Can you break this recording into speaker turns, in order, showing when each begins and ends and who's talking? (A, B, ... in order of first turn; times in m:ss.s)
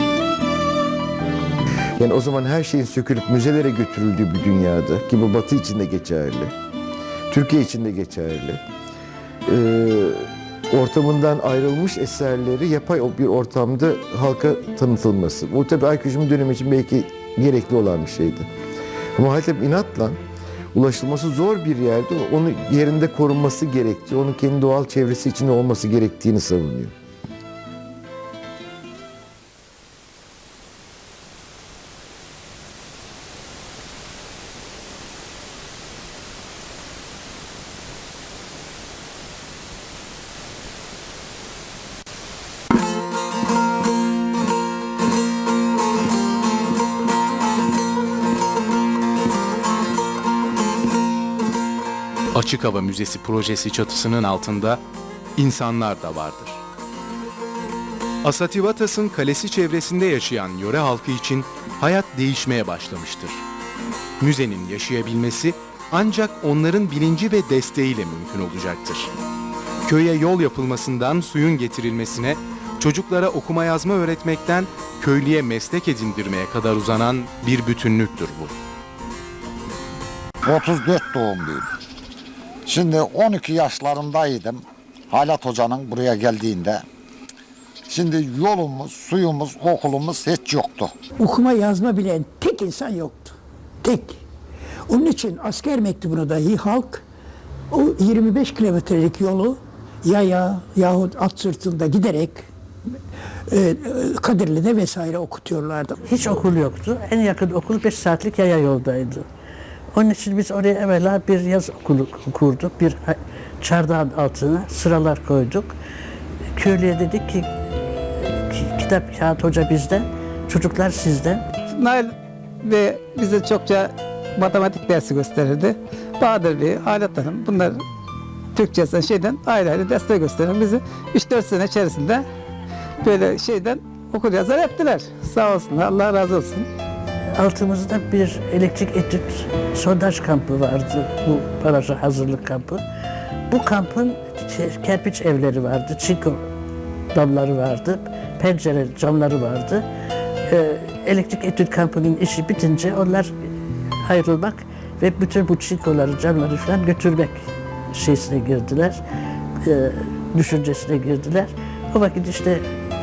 0:02.0-0:06.5 A
0:07.3-0:08.6 A
0:09.5-0:18.5 A
0:19.2-0:20.2 A
0:20.7-0:26.9 A
0:52.3-0:54.8 B
0:55.4-0:56.6 B
0:58.2-1:03.4 B
1:04.2-1:09.1 B
1:09.9-1:18.5 B
1:20.4-1:21.6 C
1:22.7-1:26.8 C
1:27.9-1:30.9 C
1:31.2-1:34.2 D
1:34.9-1:37.0 D
1:37.7-1:42.5 D
1:43.5-1:46.0 D
1:46.1-1:49.3 E
1:49.9-1:55.8 E
1:56.6-2:01.4 E
2:01.8-2:02.1 F
2:02.7-2:07.8 F
2:08.6-2:12.2 F
2:13.0-2:16.7 F
2:17.4-2:22.8 E
2:23.5-2:26.4 E
2:27.1-2:29.8 E
2:30.5-2:33.3 E
2:34.0-2:39.0 E
2:39.6-2:42.7 E